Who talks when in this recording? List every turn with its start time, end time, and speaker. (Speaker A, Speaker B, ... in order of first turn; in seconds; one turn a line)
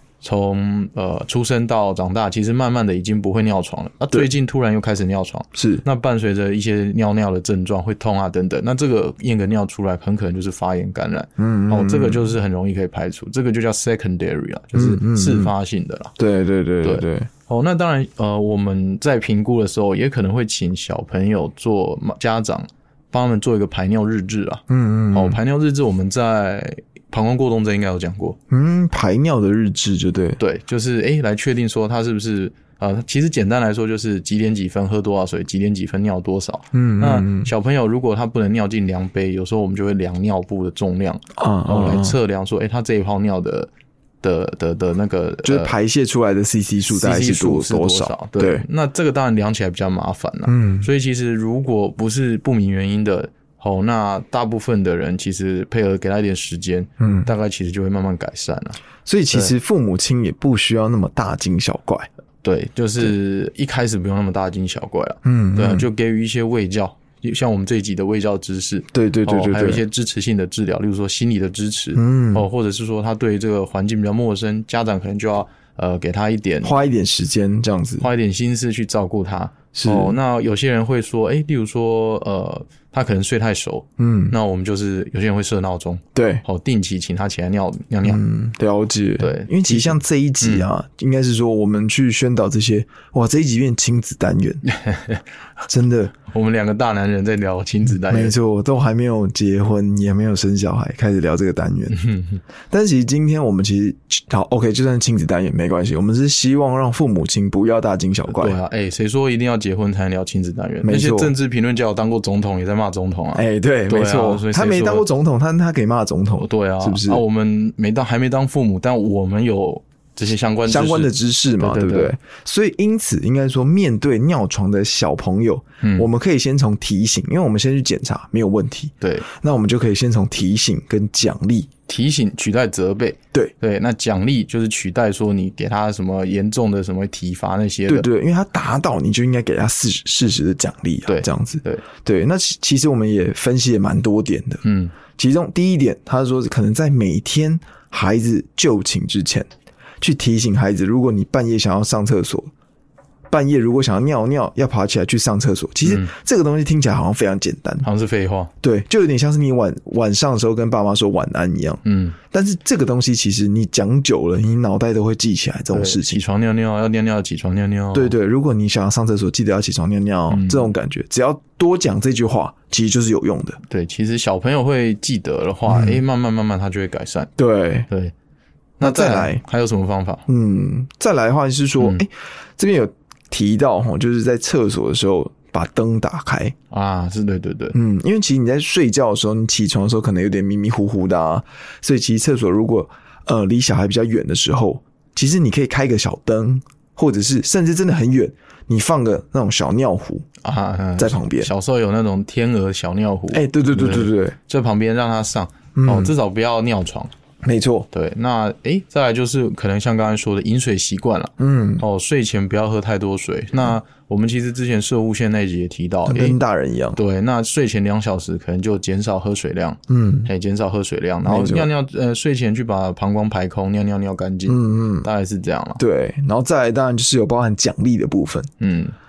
Speaker A: 0.2-16.1
Speaker B: 5.5-5.8
Speaker B: 11.4-12.3
Speaker B: 14.7-15.5
Speaker B: 16.2-17.3
Speaker A: 16.8-28.4
Speaker B: 24.7-25.4
Speaker B: 28.5-30.4
Speaker A: 30.4-43.7
Speaker B: 36.7-37.5
Speaker B: 41.4-42.2
Speaker A: 44.2-45.7
Speaker B: 45.4-48.6
Speaker A: 46.9-58.8
Speaker B: 50.5-50.9
Speaker B: 57.0-57.3
Speaker B: 59.0-62.1
Speaker A: 62.4-76.8
Speaker B: 65.2-65.9
Speaker B: 68.9-69.8
Speaker B: 72.0-72.5
Speaker B: 76.6-78.1
Speaker A: 78.0-88.2
Speaker B: 79.7-80.2
Speaker B: 84.0-84.3
Speaker B: 86.2-86.4
Speaker B: 88.0-94.6
Speaker A: 89.2-90.7
Speaker A: 94.7-95.2
Speaker B: 95.7-96.1
Speaker A: 96.3-98.3
Speaker B: 98.0-102.0
Speaker A: 101.9-102.4
Speaker B: 102.7-108.6
Speaker A: 108.3-115.1
Speaker B: 110.8-111.3
Speaker B: 113.3-117.2
Speaker A: 116.4-122.1
Speaker B: 120.7-131.7
Speaker A: 125.8-126.1
Speaker A: 129.0-129.3
Speaker A: 131.9-138.1
Speaker B: 137.9-144.6
Speaker A: 141.1-141.8
Speaker A: 144.6-144.9
Speaker B: 145.1-149.5
Speaker B: 150.0-152.5
Speaker B: 153.3-157.9
Speaker A: 155.8-156.1
Speaker A: 157.8-158.5
Speaker B: 158.6-166.2
Speaker A: 161.8-162.2
Speaker A: 165.7-168.1
Speaker B: 167.9-173.6
Speaker A: 170.3-170.7
Speaker A: 173.7-177.3
Speaker B: 175.7-176.0
Speaker B: 177.4-177.9
Speaker A: 177.9-178.1
Speaker A: 178.8-180.2
Speaker B: 178.8-179.4
Speaker B: 180.3-186.6
Speaker A: 186.7-187.8
Speaker B: 187.7-200.2
Speaker A: 200.4-207.1
Speaker B: 201.0-201.5
Speaker B: 203.3-204.4
Speaker B: 205.8-206.1
Speaker B: 207.4-207.9
Speaker A: 207.9-216.4
Speaker B: 211.4-211.8
Speaker B: 216.1-217.0
Speaker A: 216.9-225.8
Speaker B: 219.9-220.3
Speaker B: 221.2-221.7
Speaker B: 224.5-225.1
Speaker B: 225.8-228.5
Speaker A: 228.6-228.9